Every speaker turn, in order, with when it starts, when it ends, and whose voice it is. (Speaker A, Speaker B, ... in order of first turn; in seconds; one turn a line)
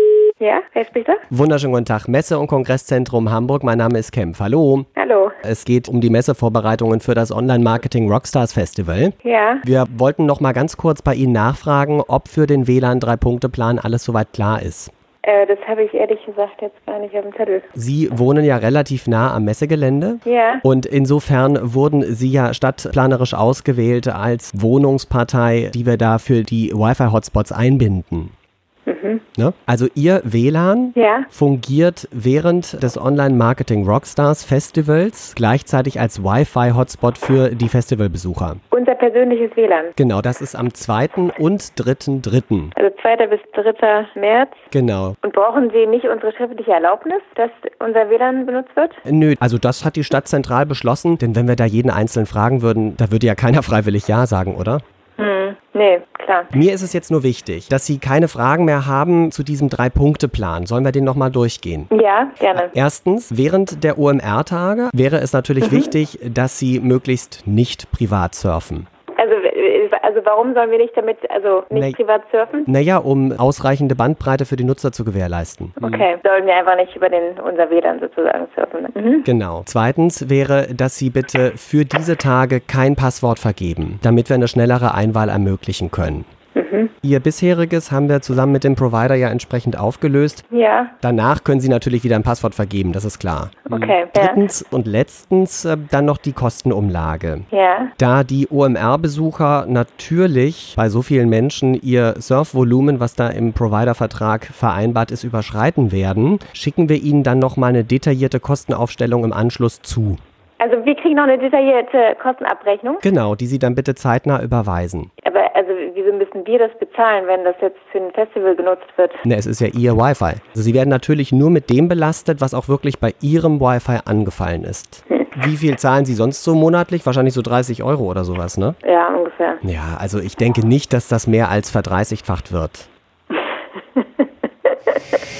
Speaker A: 0.4-1.2
Speaker B: 1.3-4.9
Speaker A: 5.0-5.4
Speaker B: 5.4-14.9
Speaker A: 9.2-9.6
Speaker A: 15.2-17.7
Speaker B: 17.8-28.3
Speaker A: 20.2-20.6
Speaker A: 28.9-29.2
Speaker B: 29.4-38.6
Speaker A: 30.9-31.3
Speaker A: 38.7-39.9
Speaker B: 40.0-42.8
Speaker A: 42.8-44.6
Speaker B: 44.7-45.2
Speaker A: 45.2-49.0
Speaker B: 49.1-54.8
Speaker A: 55.2-56.5
Speaker B: 56.5-61.9
Speaker A: 61.9-62.7
Speaker B: 62.5-68.9
Speaker A: 65.6-65.9
Speaker A: 69.2-72.7
Speaker B: 71.7-72.0
Speaker B: 72.7-76.1
Speaker A: 75.8-79.3
Speaker B: 79.2-86.3
Speaker A: 86.5-86.9
Speaker B: 87.0-90.4
Speaker A: 90.5-90.9
Speaker B: 91.0-97.5
Speaker A: 93.7-94.5
Speaker A: 97.5-97.9
Speaker B: 98.0-110.2
Speaker A: 110.6-113.0
Speaker B: 113.0-115.1
Speaker A: 115.2-119.2
Speaker B: 119.2-128.8
Speaker A: 128.8-129.6
Speaker B: 129.6-132.9
Speaker A: 133.3-135.0